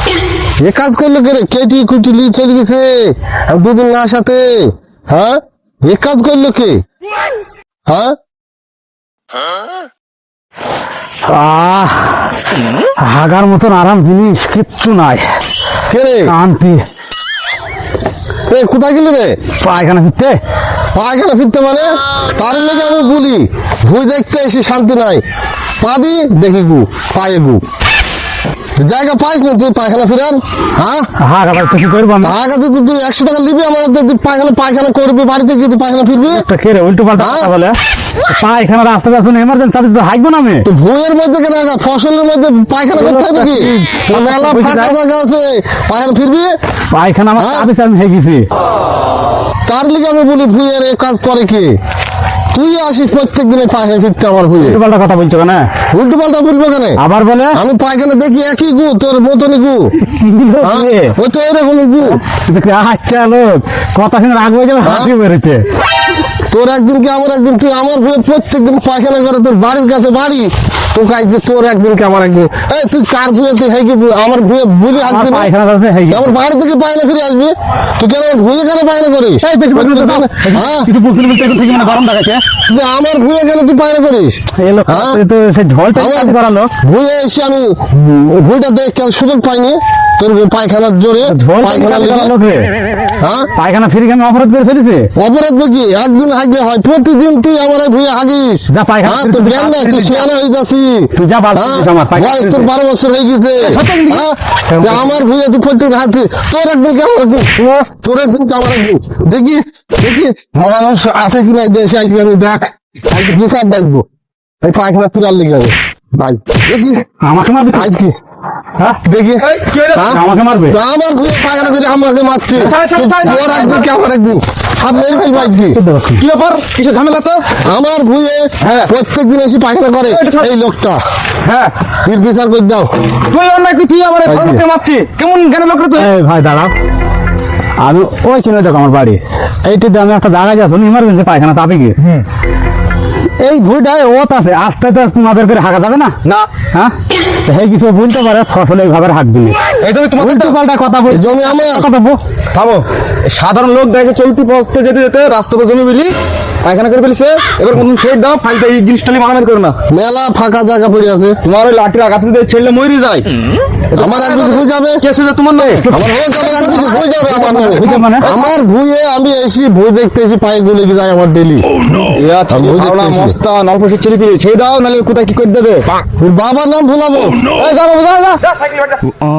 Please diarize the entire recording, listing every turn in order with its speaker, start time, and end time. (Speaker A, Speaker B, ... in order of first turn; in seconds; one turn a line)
Speaker A: 0.6-6.8
Speaker A: 7.9-8.1
Speaker B: 11.3-12.3
Speaker B: 13.0-15.2
Speaker A: 15.9-16.3
Speaker B: 16.2-16.8
Speaker A: 18.5-19.4
Speaker B: 19.6-20.4
Speaker A: 20.9-25.2
Speaker A: 25.8-27.6
Speaker A: 28.8-31.1
Speaker B: 31.2-32.3
Speaker A: 32.2-36.4
Speaker B: 36.3-37.7
Speaker A: 37.1-37.5
Speaker B: 38.3-40.6
Speaker A: 40.6-46.5
Speaker B: 43.0-45.0
Speaker B: 46.9-48.5
Speaker A: 47.4-47.7
Speaker A: 49.7-51.7
Speaker A: 52.5-54.8
Speaker B: 54.6-55.7
Speaker A: 55.9-57.0
Speaker B: 57.0-57.6
Speaker A: 57.5-59.9
Speaker B: 60.0-61.1
Speaker A: 60.6-62.2
Speaker B: 62.2-65.6
Speaker A: 64.8-65.1
Speaker A: 66.5-75.5
Speaker B: 74.9-76.3
Speaker A: 76.1-80.9
Speaker B: 79.4-82.4
Speaker A: 82.7-85.2
Speaker B: 84.6-86.7
Speaker A: 85.9-92.3
Speaker B: 91.2-92.7
Speaker A: 93.2-93.5
Speaker B: 93.5-95.1
Speaker A: 95.2-114.0
Speaker B: 98.7-100.3
Speaker B: 101.1-102.7
Speaker C: 103.6-104.3
Speaker B: 104.7-105.1
Speaker A: 114.6-117.0
Speaker B: 117.2-117.9
Speaker A: 117.7-118.1
Speaker A: 119.0-125.8
Speaker C: 119.4-120.2
Speaker B: 120.0-120.8
Speaker C: 122.5-123.9
Speaker B: 125.7-126.2
Speaker C: 126.2-127.5
Speaker A: 127.6-131.0
Speaker C: 128.6-128.9
Speaker C: 130.1-130.5
Speaker C: 131.4-131.7
Speaker A: 132.0-132.9
Speaker C: 133.3-136.1
Speaker A: 134.2-134.6
Speaker B: 136.0-136.7
Speaker B: 137.8-141.9
Speaker B: 143.4-146.1
Speaker B: 147.4-149.6
Speaker C: 149.8-150.5
Speaker B: 150.2-152.2
Speaker A: 151.1-151.9
Speaker C: 152.5-159.8
Speaker A: 159.9-161.4
Speaker C: 161.4-163.3
Speaker C: 163.9-165.8
Speaker A: 163.9-165.0
Speaker B: 165.6-166.1
Speaker A: 165.9-171.7
Speaker C: 166.4-167.1
Speaker B: 167.3-168.5
Speaker C: 167.8-168.1
Speaker C: 171.9-175.9
Speaker A: 172.5-173.4
Speaker A: 176.2-177.5
Speaker C: 177.5-179.0